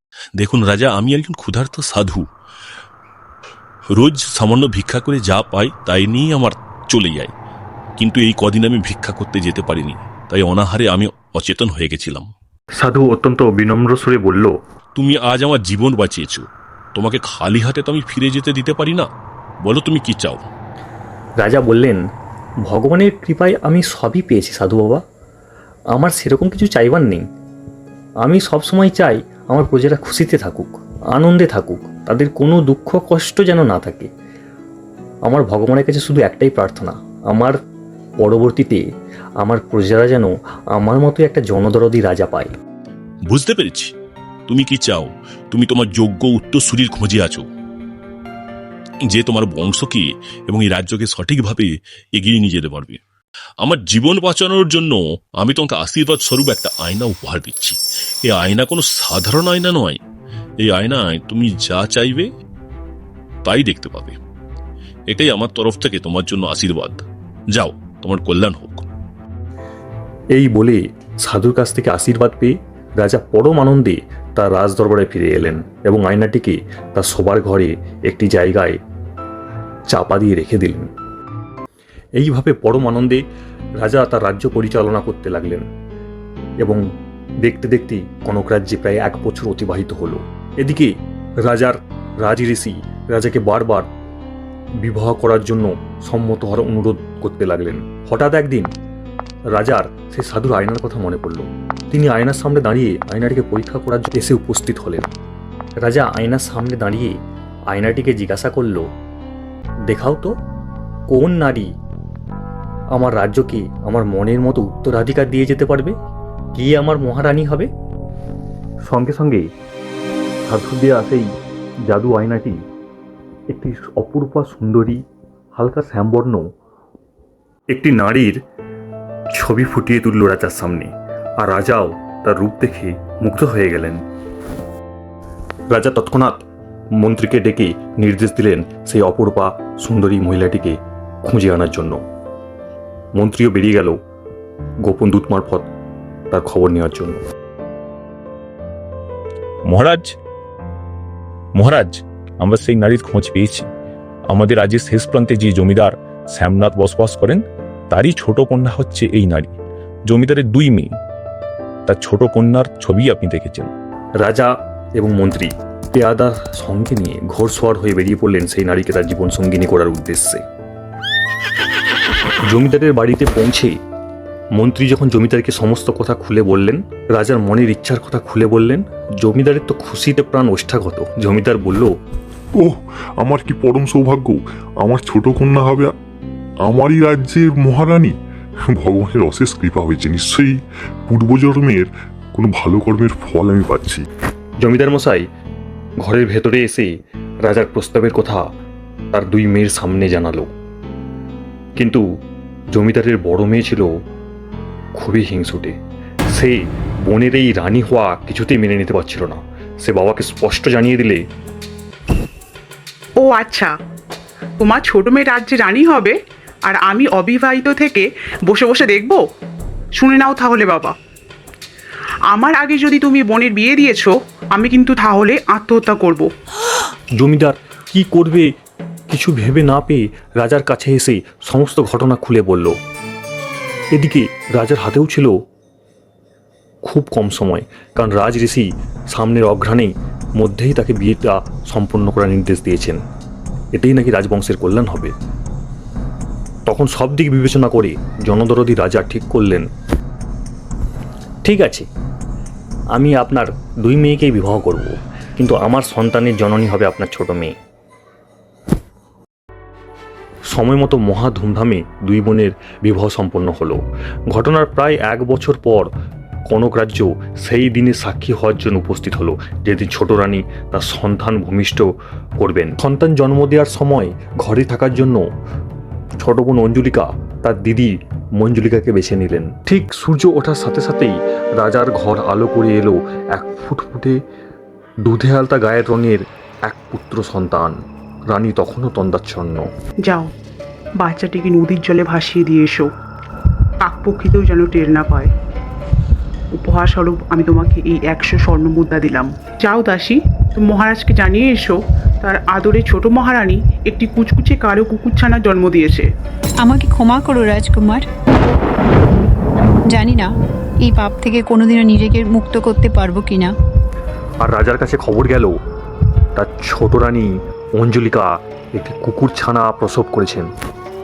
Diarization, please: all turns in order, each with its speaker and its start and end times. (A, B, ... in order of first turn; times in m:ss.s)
0:00.4-0:02.2 A
0:03.9-0:07.3 A
0:08.0-0:12.3 A
0:12.8-0:14.5 B
0:15.0-0:19.1 A
0:19.6-0:20.4 A
0:21.4-0:22.0 B
0:22.6-0:25.0 B
0:25.9-0:27.2 B
0:28.2-0:34.1 B
0:35.2-0:37.6 B
0:38.2-0:38.8 B
0:39.4-0:42.5 B
0:43.3-0:43.9 A
0:44.5-0:47.5 A
0:49.1-0:53.0 A
0:53.6-1:00.0 A
1:00.6-1:02.3 A
1:03.4-1:04.2 A
1:05.1-1:07.0 A
1:07.6-1:08.9 A
1:10.3-1:18.8 B
1:19.9-1:20.9 B
1:22.2-1:23.2 B
1:23.8-1:25.6 B
1:27.4-1:30.9 B
1:31.4-1:33.9 B
1:34.8-1:38.7 B
1:39.5-1:45.1 B
1:45.8-1:47.1 B
1:47.7-1:48.9 B
1:49.9-1:50.3 B
1:51.1-1:51.7 B
1:52.9-1:56.0 B
1:56.5-1:57.7 B
1:58.9-1:59.5 B
2:00.4-2:01.3 B
2:01.9-2:02.6 B
2:03.5-2:05.0 B
2:05.6-2:06.5 B
2:07.7-2:08.4 B
2:09.3-2:14.0 B
2:15.7-2:16.4 B
2:17.0-2:22.0 B
2:23.1-2:24.0 B
2:24.8-2:25.7 B
2:26.3-2:27.2 B
2:29.6-2:30.2 C
2:31.5-2:33.7 C
2:34.3-2:39.5 C
2:40.1-2:40.9 C
2:41.8-2:43.7 C
2:44.2-2:50.4 B
2:52.4-2:53.7 B
2:54.5-3:01.9 B
3:02.5-3:05.9 D
3:06.6-3:14.0 D
3:14.6-3:15.2 B
3:16.0-3:16.9 B
3:17.4-3:18.4 B
3:19.1-3:20.5 B
3:21.8-3:22.0 B
3:22.7-3:23.9 B
3:25.0-3:25.7 B
3:26.3-3:31.2 B
3:33.2-3:33.7 E
3:34.6-3:39.2 E
3:40.0-3:40.9 E
3:42.3-3:46.3 E
3:47.2-3:48.5 B
3:49.1-3:52.8 B
3:53.9-3:55.3 B
3:56.8-4:03.0 B
4:03.7-4:05.1 B
4:06.6-4:09.7 B
4:11.4-4:11.9 B
4:12.9-4:17.5 B
4:20.5-4:25.9 B
4:26.5-4:35.3 B
4:36.2-4:44.2 B
4:45.0-4:47.8 B
4:48.3-4:49.7 B
4:50.0-4:50.3 E
4:51.0-4:52.9 E
4:53.8-4:55.3 E
4:56.5-5:06.1 E
5:06.6-5:08.1 F
5:09.8-5:13.5 F
5:14.4-5:15.6 B
5:16.3-5:20.5 B